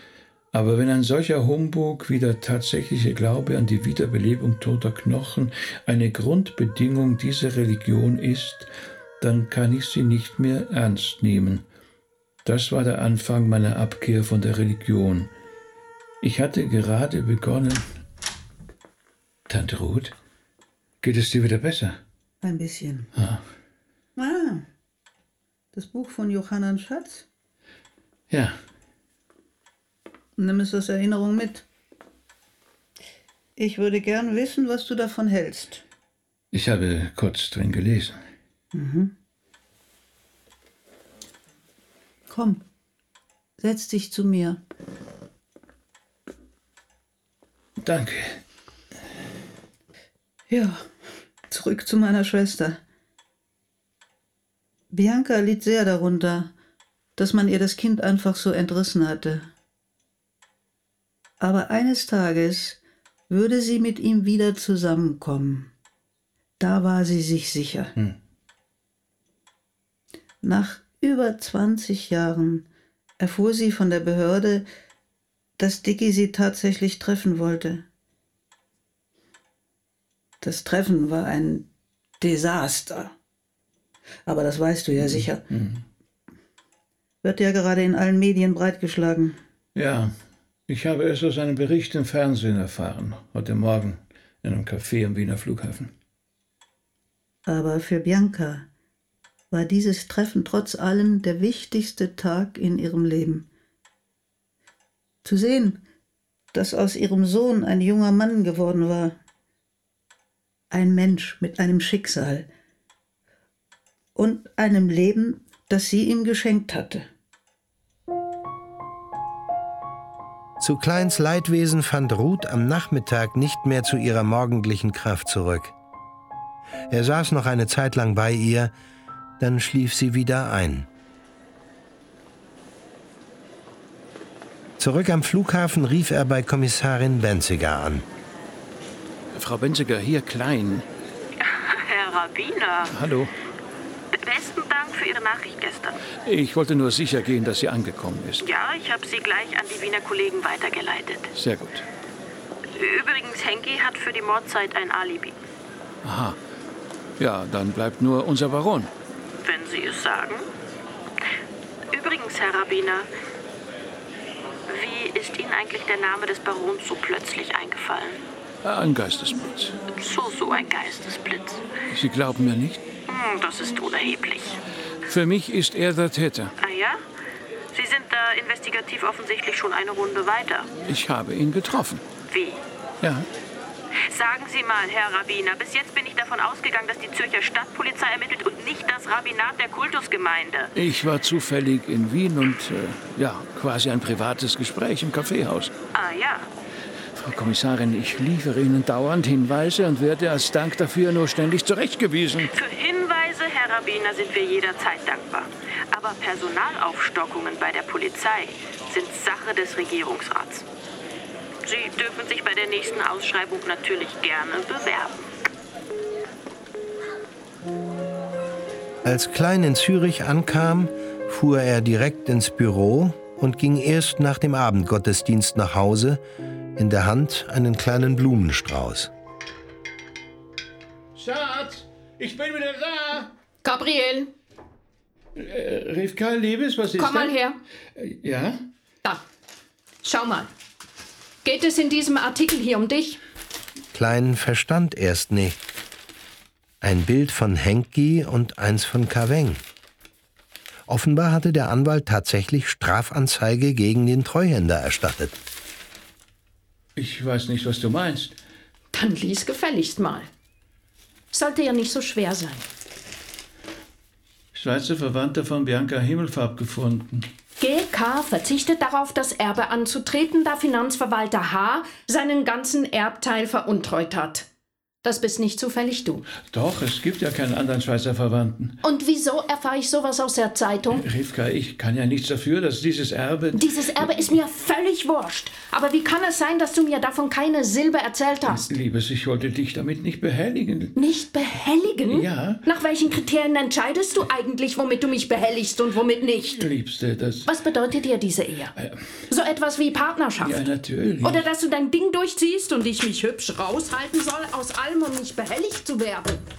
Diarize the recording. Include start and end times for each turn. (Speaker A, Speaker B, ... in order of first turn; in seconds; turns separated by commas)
Speaker A: 0.5-8.7, Speaker A: 9.2-11.6, Speaker A: 12.4-15.3, Speaker A: 16.2-17.8, Speaker A: 19.5-20.1, Speaker A: 21.0-22.0, Speaker B: 22.4-23.1, Speaker A: 23.1-23.4, Speaker B: 24.2-24.6, Speaker B: 25.7-27.2, Speaker A: 28.3-28.6, Speaker B: 30.4-31.6, Speaker B: 33.6-35.8, Speaker A: 36.5-38.2, Speaker B: 38.7-39.1, Speaker B: 42.3-42.6, Speaker B: 43.6-44.6, Speaker A: 47.8-48.4, Speaker B: 50.5-50.8, Speaker B: 51.5-52.8, Speaker B: 54.9-56.5, Speaker B: 57.2-59.5, Speaker B: 61.4-62.8, Speaker B: 63.3-65.7, Speaker B: 66.6-67.9, Speaker B: 70.4-72.6, Speaker B: 73.2-74.7, Speaker B: 75.6-77.8, Speaker B: 80.4-81.7, Speaker B: 82.2-83.1, Speaker B: 84.2-85.4, Speaker A: 85.0-85.8, Speaker B: 87.2-89.4, Speaker A: 89.7-90.1, Speaker A: 90.7-95.9, Speaker B: 97.5-98.6, Speaker B: 99.5-103.5, Speaker B: 105.2-105.8, Speaker B: 106.5-109.2, Speaker B: 110.7-112.5, Speaker B: 114.1-117.1, Speaker C: 120.6-125.7, Speaker C: 126.9-128.7, Speaker C: 129.4-130.9, Speaker C: 134.8-138.0, Speaker A: 139.3-140.8, Speaker D: 141.4-142.9, Speaker A: 142.9-143.3, Speaker D: 144.1-146.0, Speaker A: 146.2-148.4, Speaker D: 148.4-151.3, Speaker A: 151.3-151.8, Speaker D: 152.7-155.4, Speaker A: 156.0-156.4, Speaker A: 157.2-158.9, Speaker D: 159.4-160.4, Speaker D: 161.9-163.1, Speaker D: 164.7-168.2, Speaker A: 168.6-169.8, Speaker D: 169.9-171.6, Speaker A: 171.9-172.8, Speaker D: 173.1-174.6, Speaker A: 175.1-176.5, Speaker D: 176.6-177.0, Speaker D: 177.7-180.7, Speaker A: 180.8-182.0, Speaker D: 182.3-182.6, Speaker A: 183.0-183.3, Speaker D: 184.1-190.7, Speaker A: 190.7-195.7, Speaker D: 195.9-196.5, Speaker A: 197.1-202.5, Speaker D: 202.5-210.7, Speaker D: 211.6-215.3, Speaker C: 219.0-226.2, Speaker C: 226.8-229.1, Speaker A: 231.2-233.3, Speaker E: 233.6-234.3, Speaker A: 235.3-237.3, Speaker E: 237.0-237.6, Speaker A: 237.9-238.6, Speaker E: 240.0-240.5, Speaker E: 241.4-243.2, Speaker C: 243.9-245.6, Speaker C: 246.8-249.6, Speaker C: 250.9-255.3, Speaker A: 256.9-258.4, Speaker E: 258.9-260.3, Speaker E: 261.3-262.7, Speaker A: 264.5-267.3, Speaker E: 267.6-274.5, Speaker E: 275.0-276.2, Speaker A: 276.5-278.8, Speaker E: 278.8-281.0, Speaker A: 280.9-284.2, Speaker E: 283.5-288.7, Speaker A: 288.4-290.9, Speaker E: 290.9-296.6, Speaker A: 292.1-292.6, Speaker A: 296.5-297.5, Speaker E: 297.4-298.7, Speaker A: 298.8-299.1, Speaker E: 299.3-300.6, Speaker A: 300.4-301.4, Speaker E: 301.2-306.4